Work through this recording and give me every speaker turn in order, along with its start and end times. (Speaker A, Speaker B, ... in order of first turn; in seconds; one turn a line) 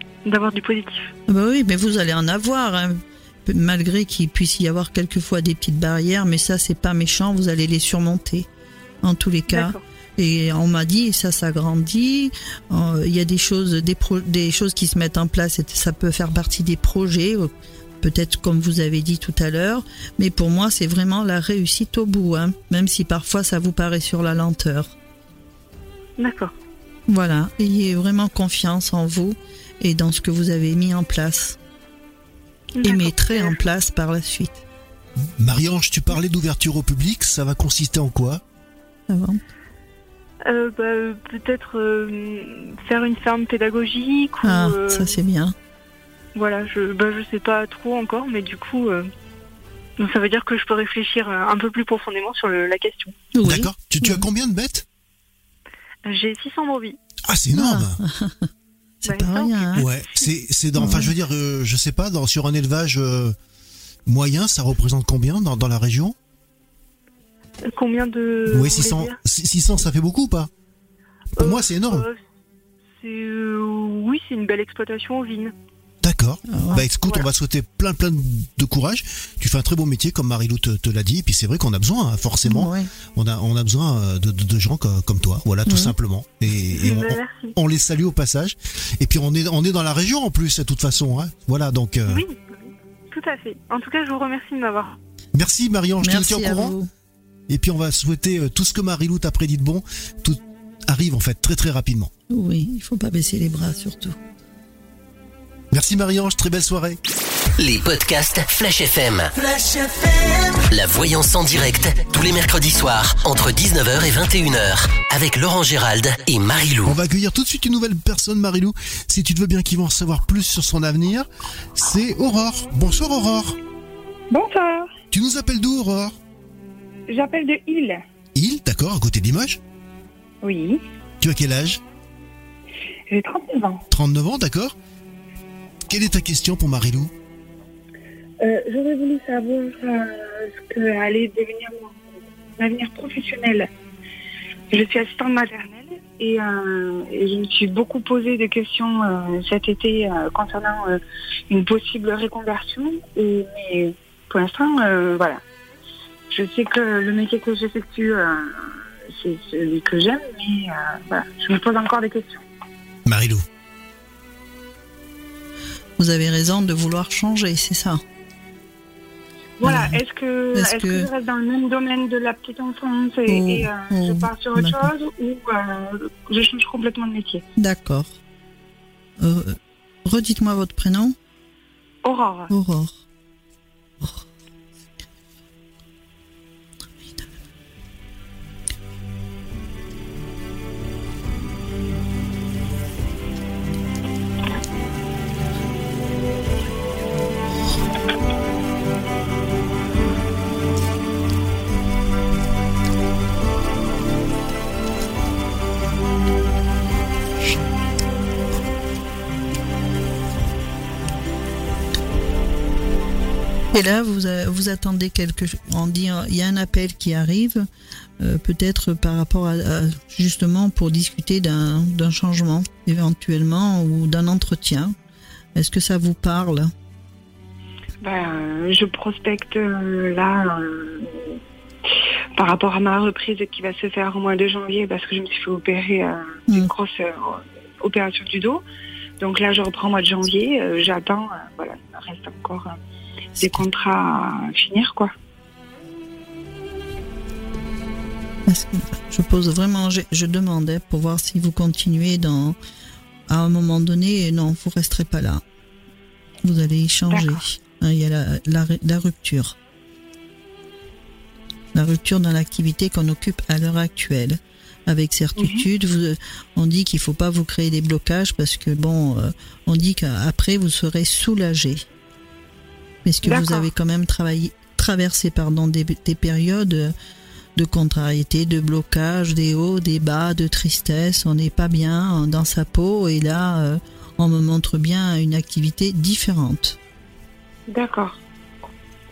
Speaker A: 0.2-1.1
Speaker B: 1.3-8.5
Speaker B: 9.0-24.9
Speaker A: 9.5-9.8
Speaker A: 26.2-26.5
Speaker B: 27.1-31.6
Speaker A: 32.7-33.5
Speaker B: 32.8-34.6
Speaker C: 35.4-38.4
Speaker B: 39.1-39.4
Speaker A: 40.5-45.1
Speaker B: 44.4-45.5
Speaker A: 46.3-49.1
Speaker A: 50.0-53.2
Speaker B: 53.3-54.2
Speaker C: 53.4-54.9
Speaker A: 56.0-57.0
Speaker C: 57.3-58.0
Speaker B: 57.5-58.5
Speaker B: 59.0-59.8
Speaker A: 59.0-60.3
Speaker C: 59.7-63.4
Speaker B: 60.8-61.1
Speaker C: 64.1-66.2
Speaker A: 67.6-69.2
Speaker C: 68.5-70.5
Speaker A: 71.3-72.2
Speaker C: 71.4-72.0
Speaker A: 73.0-75.5
Speaker C: 76.0-92.2
Speaker B: 76.5-76.8
Speaker A: 76.7-77.2
Speaker B: 82.4-82.9
Speaker B: 85.7-85.9
Speaker A: 86.7-87.5
Speaker A: 92.1-95.0
Speaker C: 95.3-96.7
Speaker B: 96.0-96.9
Speaker C: 97.5-102.1
Speaker B: 102.3-104.2
Speaker C: 105.7-107.0
Speaker D: 107.6-109.4
Speaker D: 110.3-117.0
Speaker C: 116.8-123.6
Speaker E: 124.3-124.9
Speaker C: 125.1-126.1
Speaker E: 127.1-128.0
Speaker C: 128.3-129.6
Speaker E: 130.4-130.8
Speaker C: 131.2-131.8
Speaker E: 133.1-133.8
Speaker C: 133.9-134.7
Speaker C: 135.9-137.1
Speaker E: 138.4-142.0
Speaker E: 142.6-143.7
Speaker E: 144.7-155.4
Speaker E: 156.3-162.4
Speaker C: 163.1-163.4
Speaker B: 166.0-168.0
Speaker E: 169.6-177.4
Speaker B: 169.6-170.0
Speaker B: 170.5-171.1
Speaker B: 173.3-174.9
Speaker B: 177.6-178.2
Speaker B: 179.2-181.2
Speaker E: 182.0-182.5
Speaker B: 182.5-183.0
Speaker B: 213.7-217.7
Speaker B: 218.2-224.9
Speaker B: 225.5-226.7
Speaker E: 228.0-231.4
Speaker E: 232.3-238.6
Speaker E: 239.2-242.8
Speaker B: 243.4-243.6
Speaker E: 243.4-245.1
Speaker B: 248.5-252.6
Speaker B: 253.3-255.4
Speaker B: 256.4-259.6
Speaker E: 257.1-257.4
Speaker B: 261.7-271.8
Speaker E: 265.4-265.6
Speaker B: 273.0-276.9
Speaker E: 273.2-273.7
Speaker B: 277.6-286.8
Speaker E: 287.7-288.2